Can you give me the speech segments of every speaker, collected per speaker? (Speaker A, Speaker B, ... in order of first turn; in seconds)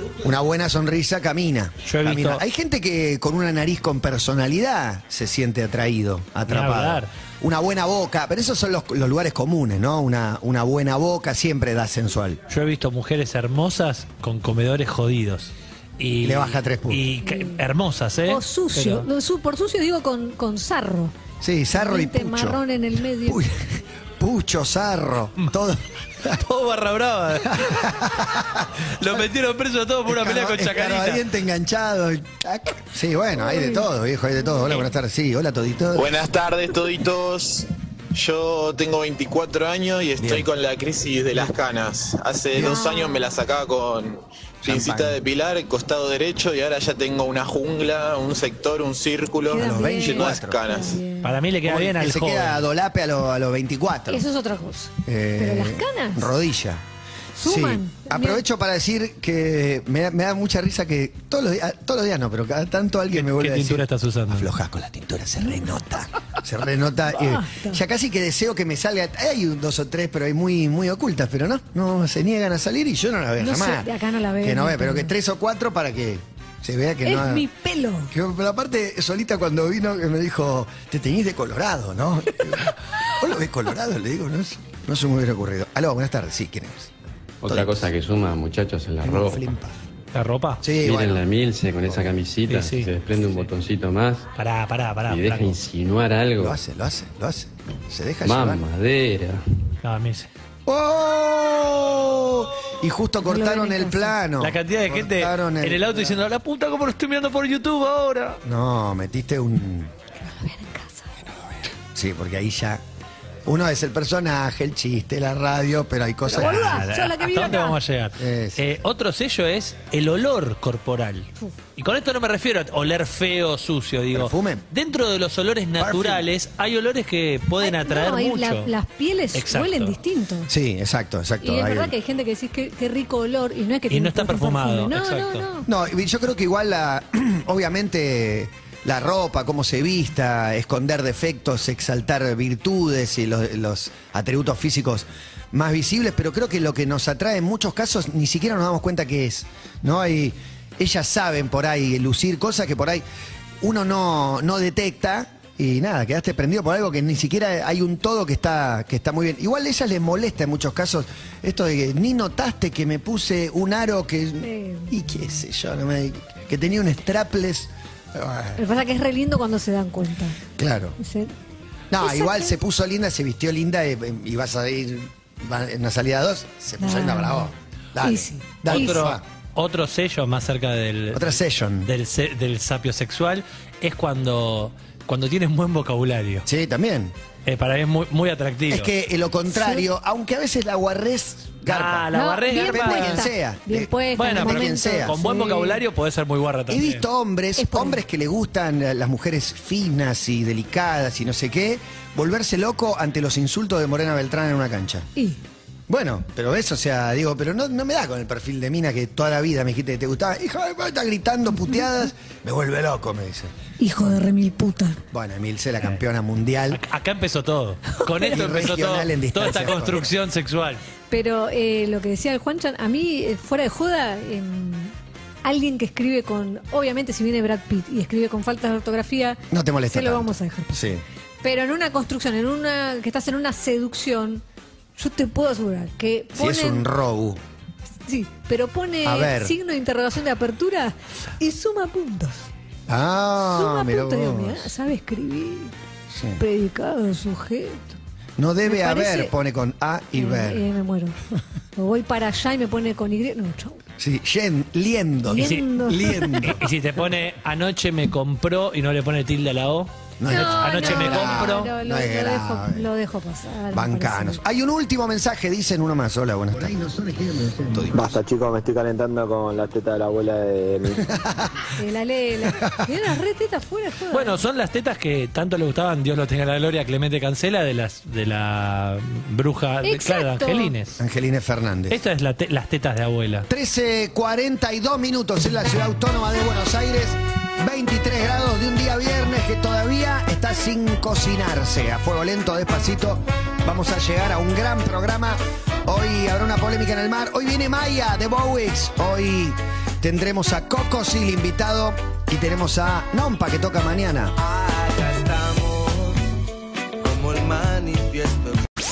Speaker A: 0.2-12.4, 16.2-17.1, 21.4-22.6, 23.2-23.6, 24.2-26.4, 27.4-29.1, 30.1-36.3, 40.2-40.5, 42.5-42.9, 44.6-45.2, 49.5-50.6, 51.7-54.2, 55.0-56.8, 57.4-73.9, 74.4-77.5, 78.1-86.9, 87.4-87.9, 89.0-89.8, 90.6-91.2, 96.4-98.6, 100.7-106.2, 108.4-109.9, 111.9-112.8, 113.5-116.9, 118.2-118.6, 124.1-124.6, 125.8-126.2, 130.5-131.9, 135.7-153.0, 153.6-168.6, 170.6-171.0, 171.9-179.2, 181.1-181.9, 186.5-187.2, 188.7-195.2, 196.7-205.1, 205.9-213.5, 215.1-216.8, 218.2-220.1, 229.5-231.0, 236.3-237.4, 239.0-239.6, 242.9-244.7, 246.1-246.4, 248.4-250.6, 254.0-256.6, 260.2-262.9, 263.7-268.2, 271.1-271.5, 272.4-272.8, 281.0-282.0, 283.5-304.4
Speaker B: 1.8-2.4, 6.5-7.1, 12.5-19.1, 26.3-28.3, 28.8-31.3, 51.2-52.6, 63.1-64.5, 90.1-90.7, 92.5-93.0, 94.4-95.6, 99.8-100.3, 104.4-108.4, 116.4-128.7, 129.3-130.0, 133.9-135.5, 178.7-186.5, 187.5-188.9, 191.7-193.3, 194.2-197.0, 216.7-220.8, 255.3-255.6, 256.4-261.7, 274.1-281.0, 281.9-283.5
Speaker C: 17.2-17.6, 18.3-21.1, 21.7-23.4, 33.4-33.8, 42.6-43.4, 49.5-51.4, 54.1-56.3, 57.4-58.4, 67.2-67.8, 73.4-75.1, 77.0-78.1, 103.2-104.2, 110.2-111.1, 116.3-117.8, 127.6-130.5, 131.4-135.7, 164.4-164.9, 168.6-170.4, 171.0-171.3, 172.0-172.6, 176.8-179.1, 189.5-189.9, 192.1-195.8, 197.6-198.0, 213.8-215.0, 221.1-230.9, 231.4-234.4, 235.0-236.9, 238.1-242.5, 243.4-245.7, 246.4-248.0, 248.6-249.3, 250.2-251.2, 251.8-253.8, 255.3-256.6, 260.3-264.4, 271.8-274.4, 279.8-280.7
Speaker D: 35.9-51.0
Speaker E: 87.4-89.5, 90.8-94.3, 95.1-96.6, 98.2-99.4
Speaker F: 267.9-271.0
Speaker G: 304.4-306.2, 307.0-308.6